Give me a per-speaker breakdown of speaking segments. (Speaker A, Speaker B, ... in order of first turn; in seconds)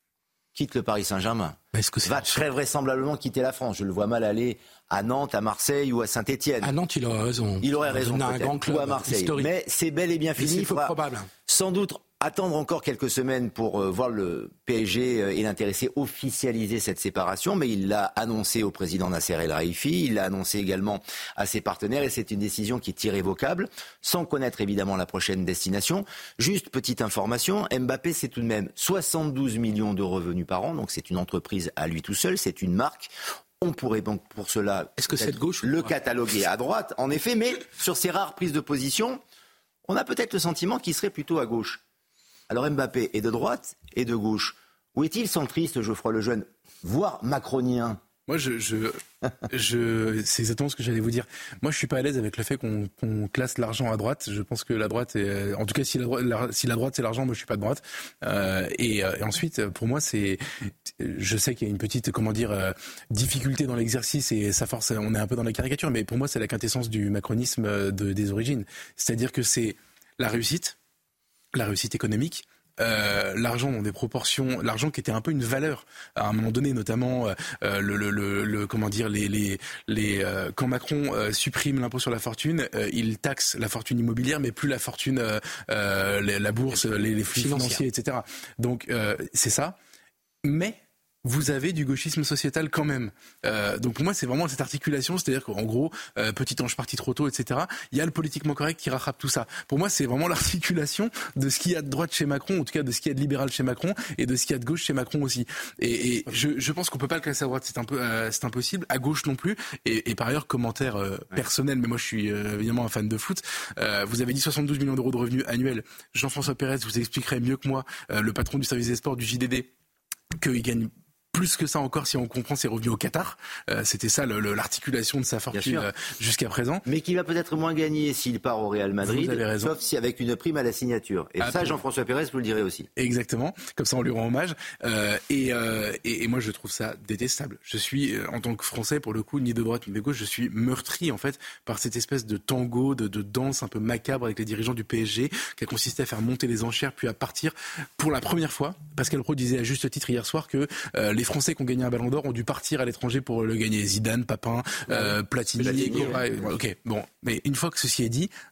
Speaker A: 0.6-6.7, 7.6-10.9, 11.5-39.2, 39.9-41.8, 42.5-48.0, 125.5-125.9, 126.9-132.9, 154.9-156.5
Speaker B: 1.7-2.5, 6.6-9.5, 10.4-11.3, 35.0-35.9, 86.7-87.8, 155.6-156.2
Speaker C: 48.3-60.4, 61.0-70.8, 71.5-89.8, 90.4-119.7, 120.4-126.8, 129.0-129.7, 131.4-131.8, 133.0-158.3